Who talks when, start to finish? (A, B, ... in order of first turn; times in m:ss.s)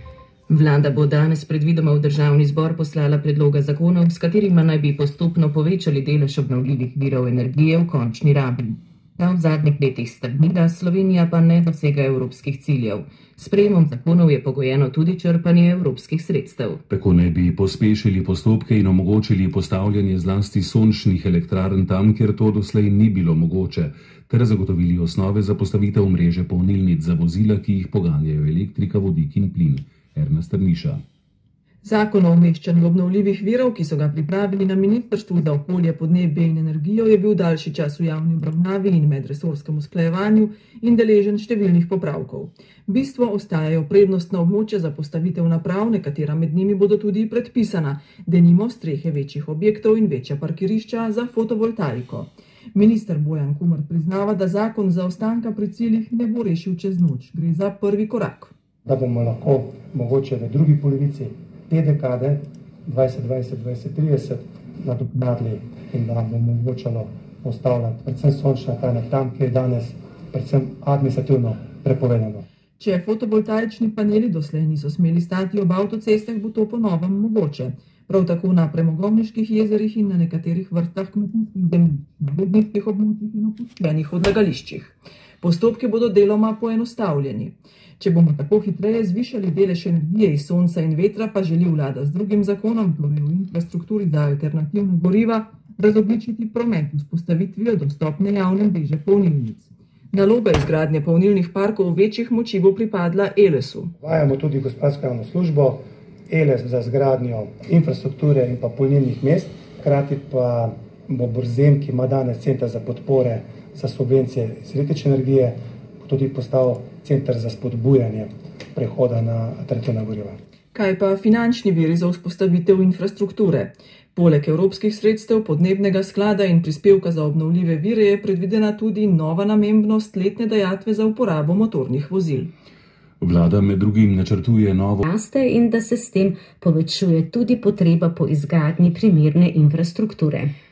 0:00.5-0:16.8 A
0:16.9-0:31.0 B
0:31.8-0:58.5 C
0:58.8-1:12.4 D
1:12.8-1:43.9 C
1:44.0-2:00.4 D
2:00.7-2:12.5 C
2:13.2-2:15.0 B
2:15.0-2:20.5 E